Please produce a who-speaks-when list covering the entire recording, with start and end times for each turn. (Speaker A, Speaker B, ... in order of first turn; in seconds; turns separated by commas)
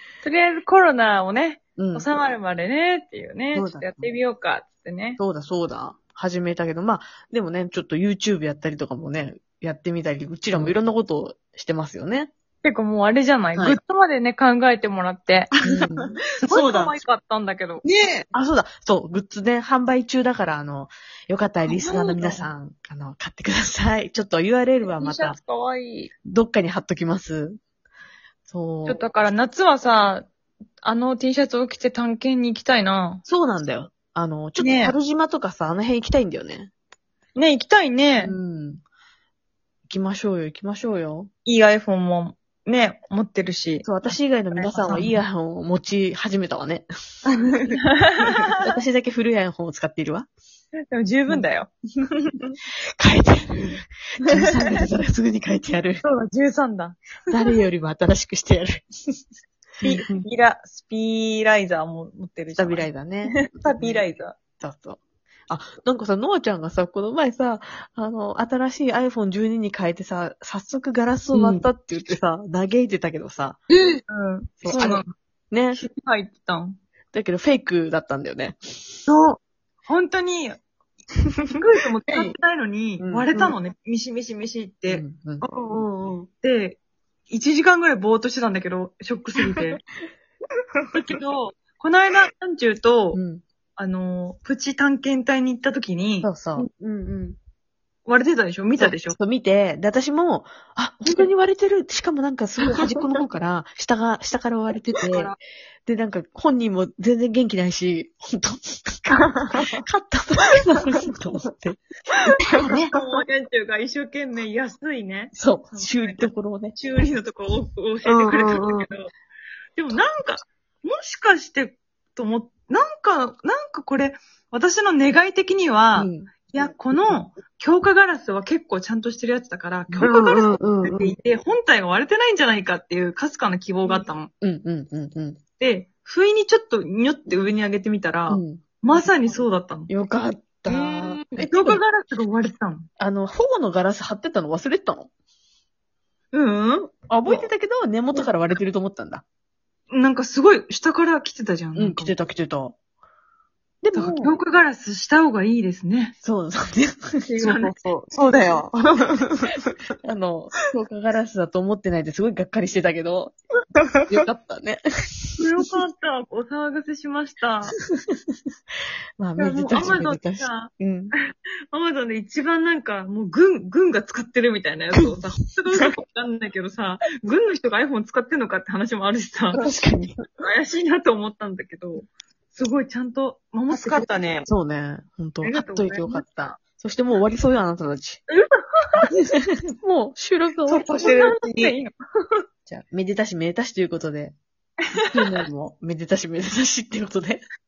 Speaker A: 0.2-5.2, Speaker B: 1.8-2.1, Speaker B: 3.5-4.1, Speaker B: 5.2-12.3, Speaker A: 12.6-15.5, Speaker C: 15.5-17.0, Speaker B: 15.6-16.2, Speaker A: 16.5-17.8, Speaker C: 17.8-18.2, Speaker B: 18.3-25.4, Speaker A: 21.9-22.4, Speaker A: 24.8-26.1, Speaker B: 26.2-27.6, Speaker B: 28.4-29.0, Speaker A: 28.9-30.3, Speaker A: 30.8-33.2, Speaker B: 33.2-36.7, Speaker A: 34.6-35.0, Speaker A: 37.3-38.4, Speaker B: 38.2-38.8, Speaker B: 39.9-41.3, Speaker A: 41.4-43.9, Speaker B: 43.8-46.9, Speaker A: 44.5-45.2, Speaker A: 47.8-48.5, Speaker B: 48.2-50.3, Speaker A: 50.9-52.5, Speaker B: 53.0-56.0, Speaker A: 56.0-57.0, Speaker B: 57.3-59.2, Speaker B: 59.8-60.2, Speaker A: 59.8-64.4, Speaker B: 62.5-64.0, Speaker B: 64.6-73.6, Speaker C: 71.3-71.7, Speaker C: 73.7-74.0, Speaker A: 74.1-75.1, Speaker B: 74.6-75.8, Speaker A: 75.7-76.8, Speaker B: 77.1-78.8, Speaker C: 79.0-79.4, Speaker A: 79.8-80.6, Speaker A: 81.6-85.0, Speaker C: 82.1-82.3, Speaker B: 83.0-83.5, Speaker B: 84.9-85.4, Speaker C: 85.4-86.3, Speaker A: 86.4-89.8, Speaker A: 90.9-93.2, Speaker B: 93.1-93.4, Speaker A: 93.8-96.4, Speaker B: 96.2-97.2, Speaker A: 98.0-99.2, Speaker B: 98.8-105.3, Speaker B: 105.8-111.8, Speaker B: 112.4-112.9, Speaker A: 112.6-119.1, Speaker B: 115.3-116.8, Speaker C: 118.0-118.8, Speaker A: 119.8-134.3, Speaker B: 125.9-126.3, Speaker B: 129.9-131.1, Speaker C: 130.0-130.8, Speaker B: 133.9-135.4, Speaker A: 135.6-139.9, Speaker B: 138.3-139.3, Speaker B: 139.9-141.8, Speaker A: 140.7-142.9, Speaker B: 143.0-145.1, Speaker A: 146.3-147.5, Speaker B: 147.1-149.2, Speaker A: 149.9-152.1, Speaker B: 151.8-152.8, Speaker B: 153.8-154.3, Speaker A: 153.9-156.1, Speaker B: 156.2-157.2, Speaker A: 157.2-157.7, Speaker C: 157.4-159.6, Speaker B: 160.0-163.3, Speaker B: 164.1-165.4, Speaker A: 165.4-167.8, Speaker B: 167.9-168.2, Speaker B: 169.2-171.1, Speaker A: 169.4-171.1, Speaker A: 171.7-179.6, Speaker B: 179.5-180.2, Speaker A: 180.4-184.1, Speaker C: 183.7-184.5, Speaker B: 184.5-188.2, Speaker A: 185.4-186.6, Speaker A: 188.3-189.0, Speaker B: 189.8-191.8, Speaker A: 190.7-192.4, Speaker B: 192.7-194.4, Speaker B: 195.1-197.4